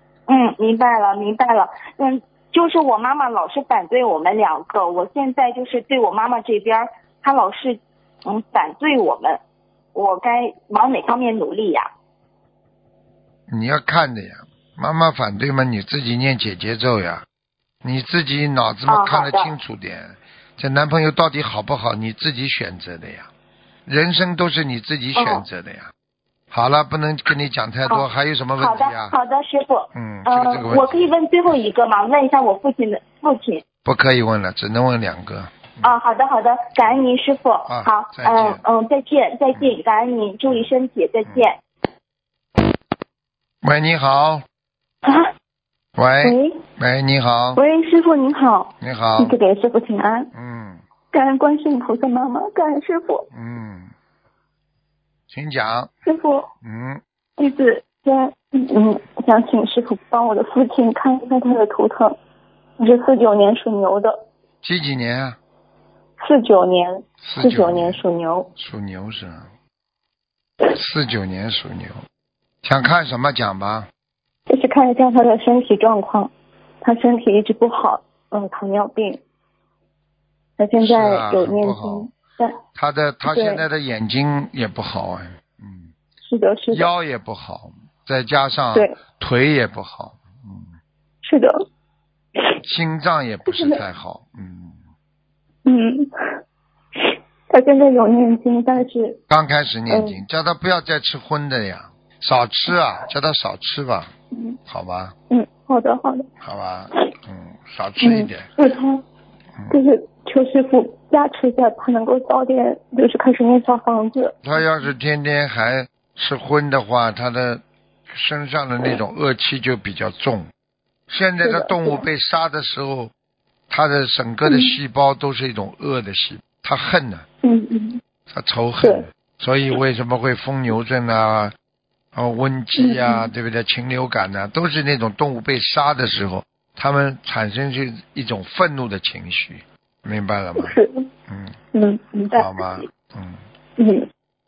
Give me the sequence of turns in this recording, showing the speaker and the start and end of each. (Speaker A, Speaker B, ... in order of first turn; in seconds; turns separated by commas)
Speaker A: 0.3-9.4, Speaker A: 9.9-11.9, Speaker B: 13.5-17.2, Speaker B: 17.8-23.3, Speaker A: 18.9-19.5, Speaker B: 23.9-25.9, Speaker A: 25.1-25.4, Speaker B: 26.5-29.1, Speaker A: 28.6-33.6, Speaker B: 29.9-31.1, Speaker B: 33.8-35.9, Speaker A: 35.8-41.6, Speaker B: 37.7-38.6, Speaker B: 43.6-44.4, Speaker B: 46.0-47.6, Speaker C: 46.2-46.6, Speaker C: 47.5-50.3, Speaker B: 48.8-49.4, Speaker B: 50.3-50.8, Speaker C: 51.1-53.3, Speaker B: 53.3-53.9, Speaker B: 55.3-55.9, Speaker C: 56.0-56.5, Speaker B: 56.6-57.0, Speaker C: 57.4-62.2, Speaker C: 62.8-64.2, Speaker B: 64.6-65.4, Speaker C: 66.2-68.5, Speaker B: 67.2-68.0, Speaker B: 68.6-69.5, Speaker B: 70.7-72.0, Speaker B: 72.6-73.9, Speaker C: 74.5-76.3, Speaker C: 76.8-79.2, Speaker C: 80.6-82.6, Speaker B: 80.8-82.1, Speaker B: 82.7-85.9, Speaker C: 83.3-83.6, Speaker C: 86.2-86.9, Speaker B: 86.7-90.7, Speaker C: 91.2-91.6, Speaker B: 92.6-94.8, Speaker C: 93.5-93.8, Speaker C: 95.7-96.4, Speaker C: 97.0-99.2, Speaker B: 99.3-104.1, Speaker C: 99.9-100.2, Speaker B: 104.7-105.1, Speaker C: 105.3-106.3, Speaker B: 106.4-108.5, Speaker C: 108.0-109.0, Speaker C: 109.7-114.4, Speaker B: 114.4-120.5, Speaker B: 121.1-123.1, Speaker C: 121.4-122.0, Speaker B: 123.7-127.2, Speaker C: 124.5-124.7, Speaker C: 127.4-128.0, Speaker B: 128.3-131.5, Speaker B: 132.1-140.8, Speaker C: 132.8-133.3, Speaker C: 140.6-141.1, Speaker B: 141.3-141.5, Speaker C: 141.7-142.8, Speaker B: 142.3-143.4, Speaker C: 143.8-144.1